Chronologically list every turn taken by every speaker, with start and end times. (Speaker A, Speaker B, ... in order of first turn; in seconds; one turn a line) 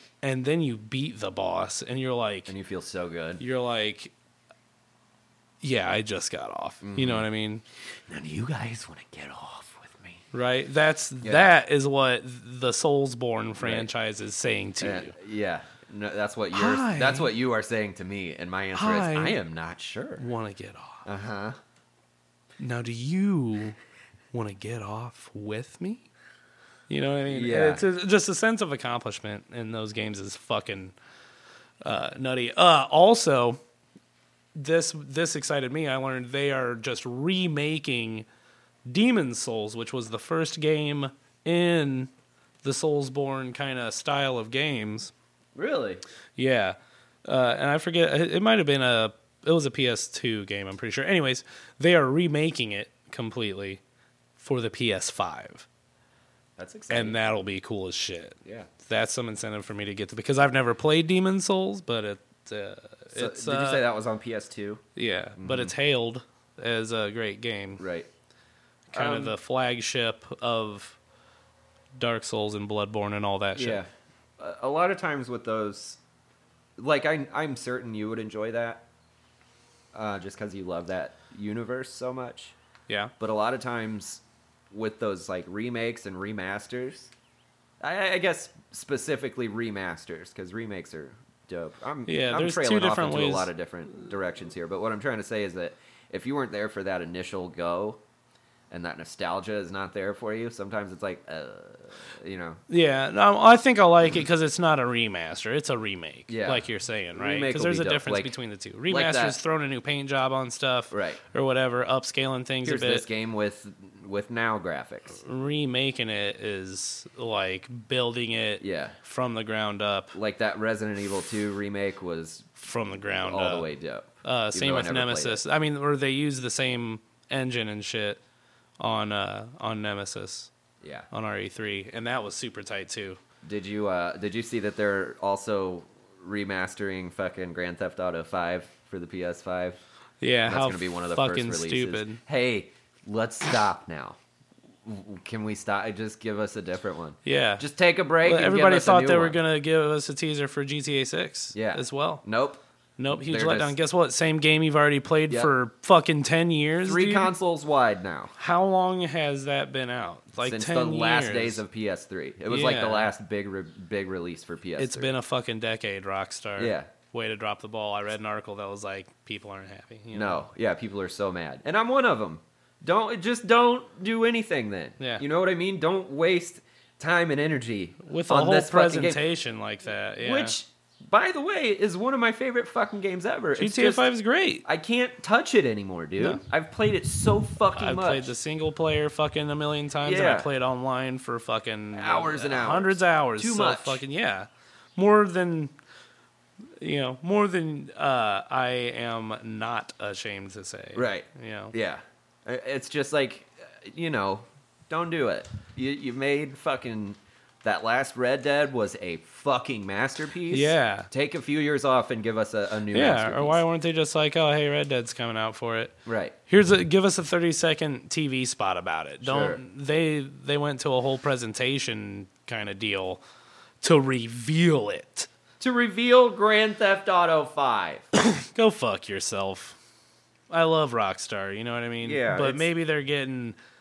Speaker A: 0.2-2.5
Speaker B: 2.5-3.4
Speaker A: 3.4-4.1
Speaker A: 5.6-7.6
Speaker B: 6.8-7.3
Speaker B: 8.1-10.2
Speaker A: 10.3-15.1
Speaker B: 11.2-11.5
Speaker B: 13.6-13.9
Speaker B: 14.8-20.2
Speaker A: 16.5-17.3
Speaker A: 18.7-19.4
Speaker A: 20.2-21.0
Speaker B: 21.1-21.6
Speaker A: 22.6-23.8
Speaker A: 24.3-26.1
Speaker A: 26.9-30.9
Speaker B: 27.3-27.8
Speaker A: 31.8-33.6
Speaker A: 34.5-38.3
Speaker A: 38.9-42.1
Speaker A: 42.6-45.1
Speaker B: 45.6-46.0
Speaker A: 46.4-53.8
Speaker A: 54.4-55.7
Speaker B: 56.6-57.2
Speaker A: 56.9-63.8
Speaker B: 58.4-58.7
Speaker B: 63.1-64.8
Speaker A: 65.0-67.8
Speaker B: 65.4-65.7
Speaker B: 67.8-68.1
Speaker A: 68.9-71.0
Speaker B: 68.9-69.3
Speaker A: 72.0-73.8
Speaker B: 73.5-76.0
Speaker B: 76.8-78.9
Speaker B: 79.9-82.6
Speaker B: 83.2-87.1
Speaker B: 87.8-98.0
Speaker A: 92.1-93.5
Speaker B: 98.7-102.6
Speaker A: 102.7-113.1
Speaker B: 106.3-108.3
Speaker B: 108.9-109.4
Speaker B: 110.9-111.2
Speaker B: 112.6-115.2
Speaker A: 115.2-120.1
Speaker B: 118.6-119.0
Speaker B: 120.1-122.6
Speaker A: 122.6-123.7
Speaker B: 123.2-125.4
Speaker A: 124.2-128.2
Speaker A: 128.8-130.5
Speaker B: 130.8-131.1
Speaker A: 131.1-133.2
Speaker B: 133.4-139.8
Speaker A: 140.2-142.2
Speaker B: 140.4-144.2
Speaker B: 144.8-149.4
Speaker A: 147.2-147.6
Speaker A: 148.2-152.2
Speaker B: 151.5-152.6
Speaker A: 153.0-157.3
Speaker B: 153.1-153.7
Speaker B: 156.8-158.3
Speaker A: 158.4-161.6
Speaker B: 160.4-165.1
Speaker A: 162.5-163.1
Speaker A: 164.8-170.4
Speaker B: 166.6-166.9
Speaker B: 170.1-179.2
Speaker A: 178.1-180.6
Speaker B: 180.2-184.1
Speaker A: 183.6-184.6
Speaker B: 184.6-188.3
Speaker A: 187.8-195.7
Speaker B: 190.0-190.5
Speaker B: 191.9-194.0
Speaker A: 196.8-201.7
Speaker B: 200.9-213.6
Speaker A: 210.5-211.1
Speaker A: 212.9-223.2
Speaker B: 216.1-216.3
Speaker B: 219.2-219.6
Speaker A: 223.8-225.3
Speaker B: 225.6-228.1
Speaker A: 228.2-229.8
Speaker A: 230.5-233.6
Speaker B: 232.0-232.7